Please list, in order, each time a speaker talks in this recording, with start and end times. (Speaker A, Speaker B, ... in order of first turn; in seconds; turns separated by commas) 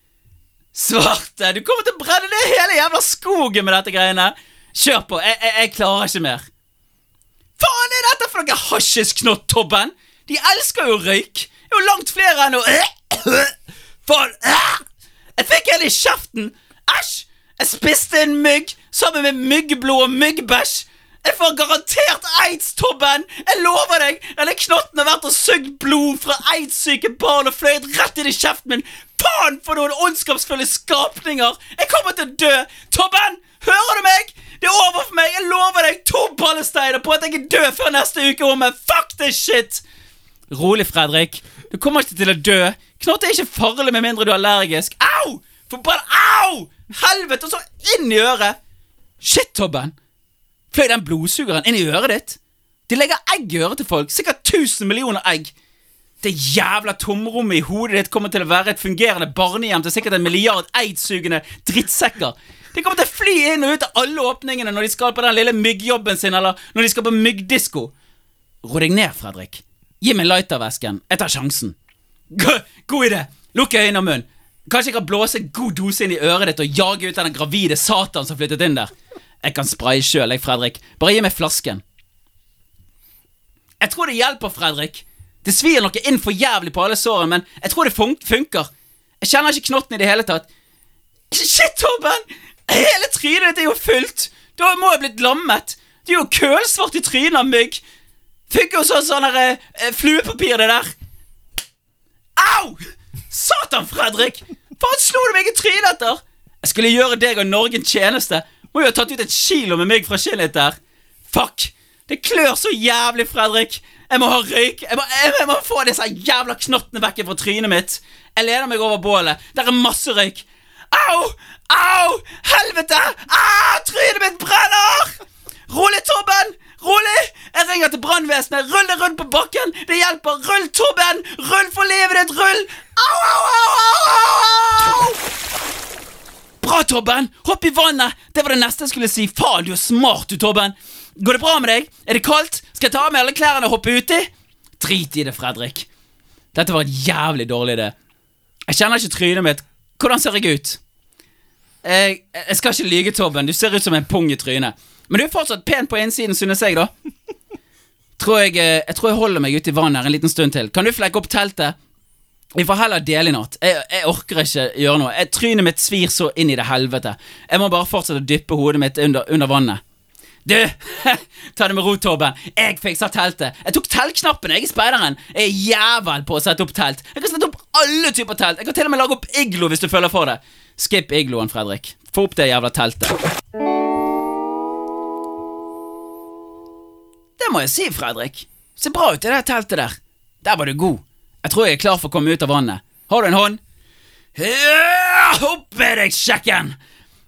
Speaker A: 0.7-6.5, Speaker A: 7.6-14.8, Speaker A: 15.4-39.8, Speaker A: 40.5-48.6, Speaker A: 49.2-49.9, Speaker A: 50.7-55.5, Speaker A: 56.2-67.9, Speaker A: 68.6-71.8, Speaker A: 72.3-81.8, Speaker A: 83.8-88.7, Speaker A: 89.2-90.5, Speaker A: 91.3-97.8, Speaker A: 98.5-100.9, Speaker A: 102.4-110.8, Speaker A: 111.3-125.2, Speaker A: 125.7-135.2, Speaker A: 136.6-145.9, Speaker A: 146.5-147.9, Speaker A: 148.7-150.8, Speaker A: 151.8-156.9, Speaker A: 158.2-161.7, Speaker A: 162.5-169.8, Speaker A: 170.4-183.2, Speaker A: 187.4-193.6, Speaker A: 194.3-196.8